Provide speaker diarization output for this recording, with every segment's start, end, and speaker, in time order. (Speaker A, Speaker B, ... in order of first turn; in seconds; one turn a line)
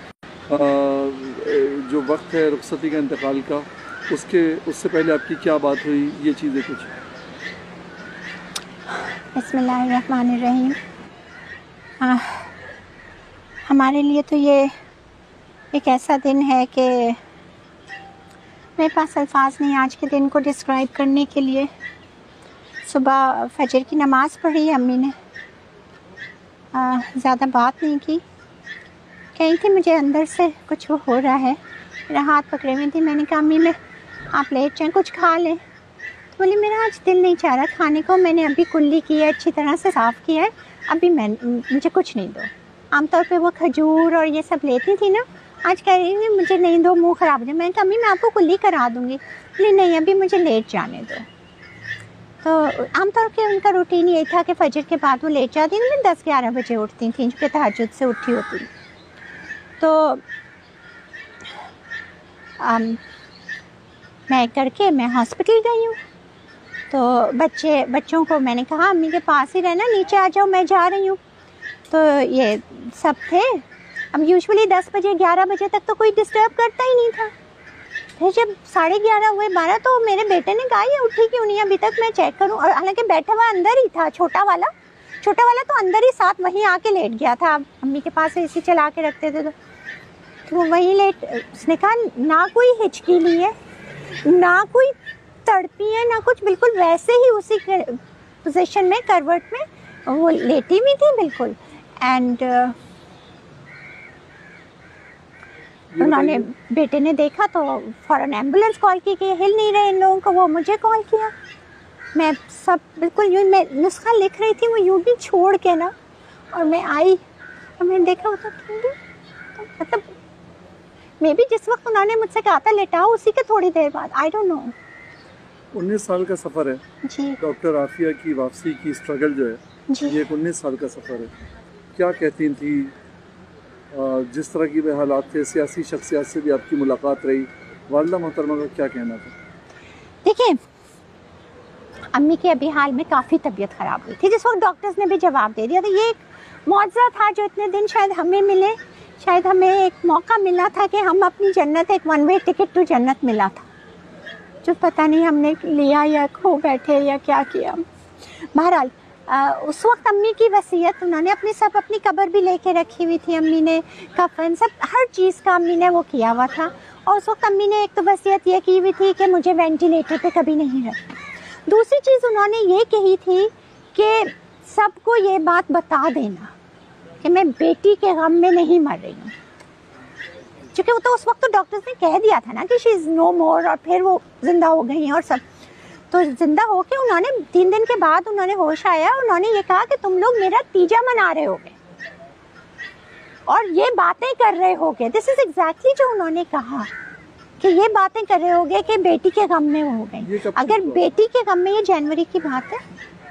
Speaker A: 0.5-6.9
Speaker B: 9.3-10.8
Speaker B: 12.0-12.5
Speaker B: 13.7-14.7
Speaker B: 15.7-17.2
Speaker B: 18.8-21.7
Speaker B: 22.8-25.1
Speaker B: 26.7-28.2
Speaker B: 29.3-33.8
Speaker B: 34.3-35.6
Speaker B: 36.3-51.2
Speaker B: 52.4-58.7
Speaker B: 59.8-60.2
Speaker B: 62.6-63.0
Speaker B: 64.3-66.0
Speaker B: 66.9-71.2
Speaker B: 71.9-77.3
Speaker B: 78.2-84.7
Speaker B: 85.2-89.5
Speaker B: 90.5-93.5
Speaker B: 94.2-94.9
Speaker B: 95.4-102.7
Speaker A: 105.9-106.5
Speaker B: 106.0-111.3
Speaker B: 112.1-115.9
Speaker B: 116.5-117.2
Speaker B: 117.8-118.9
Speaker B: 119.5-120.1
Speaker B: 121.2-124.7
Speaker A: 125.7-126.8
Speaker B: 127.0-127.4
Speaker A: 127.4-131.3
Speaker B: 129.9-130.2
Speaker A: 131.9-132.9
Speaker A: 133.9-139.3
Speaker B: 140.2-140.6
Speaker B: 142.1-153.7
Speaker B: 154.6-157.8
Speaker B: 158.5-176.5
Speaker B: 177.2-179.3
Speaker B: 180.7-185.4
Speaker B: 186.1-191.8
Speaker B: 193.5-196.9
Speaker B: 197.6-202.8
Speaker A: 200.2-201.0